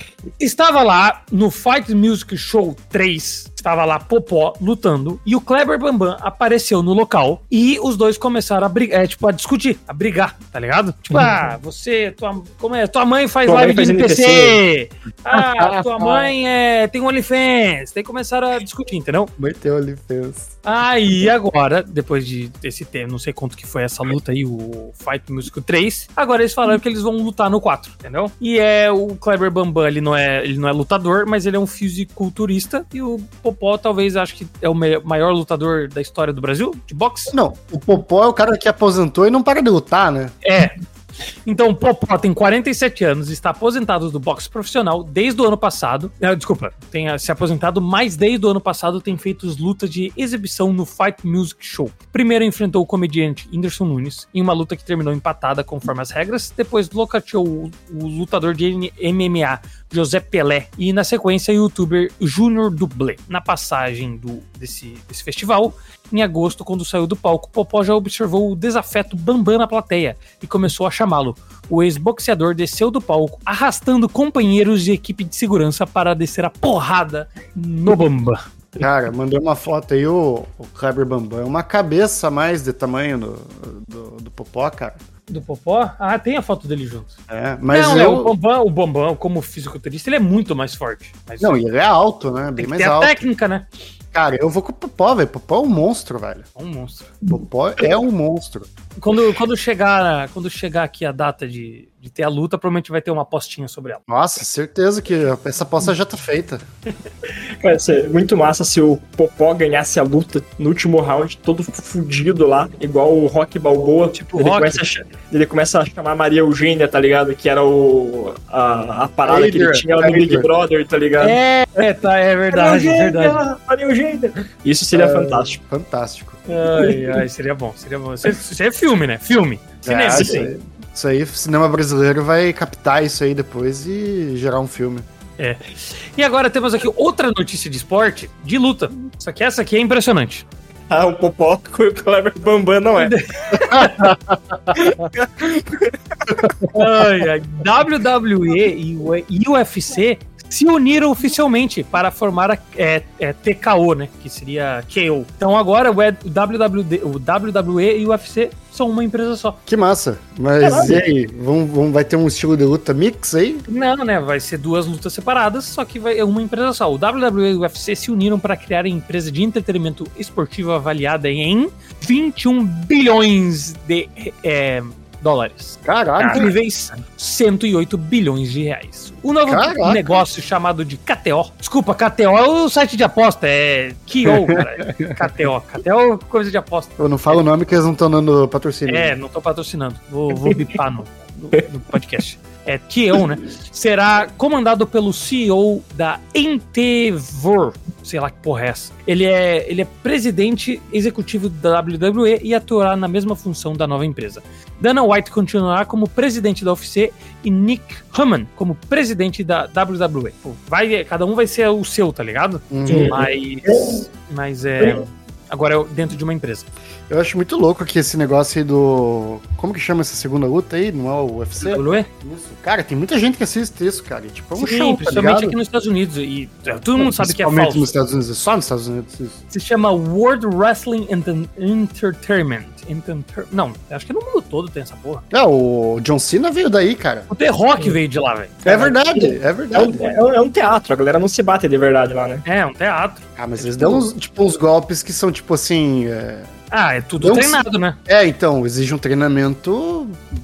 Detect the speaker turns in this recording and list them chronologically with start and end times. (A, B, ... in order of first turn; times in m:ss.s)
0:00.4-0:19.3 A
0:13.4-0:14.6 B
0:15.4-0:16.3 C
0:19.4-0:20.6 C
0:20.6-0:37.4 A
0:37.3-0:40.3 C
0:40.4-0:40.8 A
0:41.5-1:18.4 A
1:18.8-1:25.0 C
1:25.3-1:27.2 A
1:27.3-1:28.3 C
1:27.7-1:31.6 A
1:31.4-1:33.2 C
1:32.6-1:33.7 A
1:34.1-1:36.5 C
1:36.6-1:37.2 A
1:37.3-1:38.7 C
1:39.0-1:44.0 A
1:44.1-1:46.6 C
1:47.6-2:01.4 B
1:54.1-1:54.8 A
1:59.2-2:00.5 C
2:01.2-2:03.4 A
2:02.5-2:05.6 B
2:04.9-2:06.4 C
2:06.5-2:10.4 A
2:06.8-2:07.2 B
2:09.8-2:15.1 C
2:10.1-2:10.5 B
2:15.4-2:20.4 A
2:20.9-2:23.2 B
2:23.0-2:24.2 A
2:23.7-2:24.3 C
2:24.7-2:26.4 B
2:26.7-2:39.6 A
2:39.7-2:43.6 C
2:40.6-2:41.0 B
2:43.7-3:07.4 A
2:55.8-2:56.5 C
2:56.2-2:56.5 B
2:59.4-3:00.2 C
3:04.5-3:05.1 C
3:07.0-3:09.2 C
3:08.9-3:36.7 A
3:32.7-3:33.2 C
3:32.9-3:34.0 B
3:37.1-3:45.6 C
3:41.6-3:42.1 A
3:44.6-3:47.9 A
3:46.9-3:49.4 C
3:49.5-3:55.2 A
3:55.3-3:57.3 C
3:57.3-3:58.9 A
3:58.6-4:00.1 C
3:58.7-4:02.4 B
4:02.4-4:04.0 A
4:03.4-4:06.5 C
4:06.7-4:08.0 A
4:07.2-4:10.3 C